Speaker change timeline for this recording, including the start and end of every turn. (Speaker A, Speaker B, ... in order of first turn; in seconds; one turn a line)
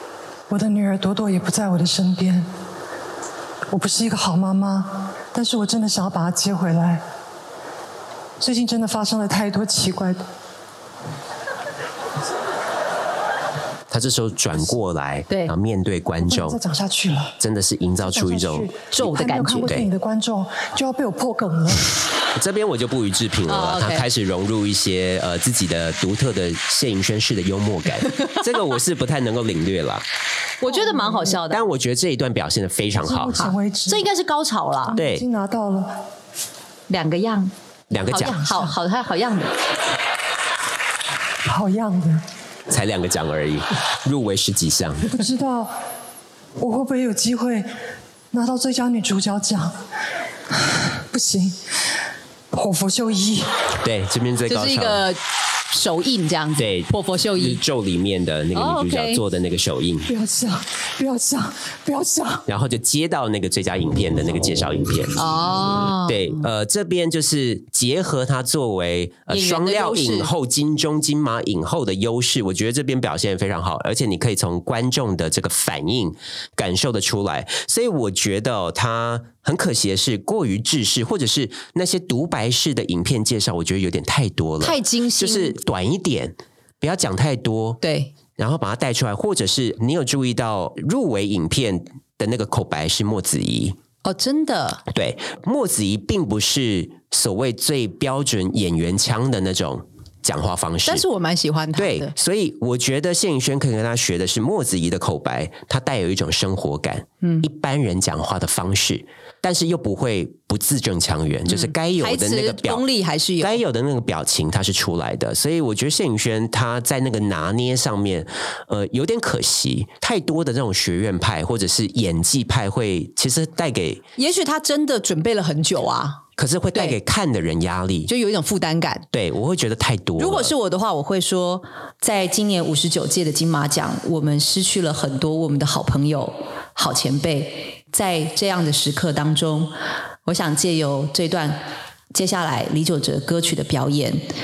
Speaker A: 0.5-2.5
Speaker A: 3.7-7.0
Speaker A: 8.4-10.2
Speaker B: 13.9-16.6
Speaker A: 16.2-17.4
Speaker B: 17.4-18.7
Speaker A: 18.0-22.0
Speaker C: 18.9-19.7
Speaker B: 22.3-30.0
Speaker C: 23.5-24.1
Speaker C: 30.6-31.6
Speaker B: 31.4-33.5
Speaker A: 33.0-34.1
Speaker C: 33.3-35.0
Speaker A: 34.9-36.0
Speaker B: 35.0-35.2
Speaker C: 36.9-39.5
Speaker B: 37.9-38.4
Speaker A: 38.2-38.7
Speaker A: 41.4-42.2
Speaker B: 42.7-45.1
Speaker A: 45.0-45.7
Speaker A: 46.6-47.6
Speaker A: 48.3-49.7
Speaker A: 50.5-51.5
Speaker A: 52.5-53.5
Speaker B: 53.8-55.0
Speaker C: 54.5-55.2
Speaker C: 55.7-57.6
Speaker B: 56.6-60.1
Speaker C: 58.5-59.2
Speaker A: 60.1-62.4
Speaker B: 62.5-65.2
Speaker C: 65.2-66.4
Speaker B: 66.0-87.8
Speaker C: 69.3-70.3
Speaker C: 84.6-85.6
Speaker C: 87.8-88.1
Speaker B: 88.4-93.8
Speaker C: 94.0-94.8
Speaker B: 94.9-101.0
Speaker C: 100.8-102.1
Speaker B: 101.8-112.8
Speaker C: 111.5-113.6
Speaker B: 113.4-124.0
Speaker C: 124.2-126.2
Speaker B: 126.4-128.1
Speaker C: 128.1-129.1
Speaker B: 129.1-130.5
Speaker C: 130.2-139.7
Speaker C: 140.2-141.6
Speaker C: 142.1-144.2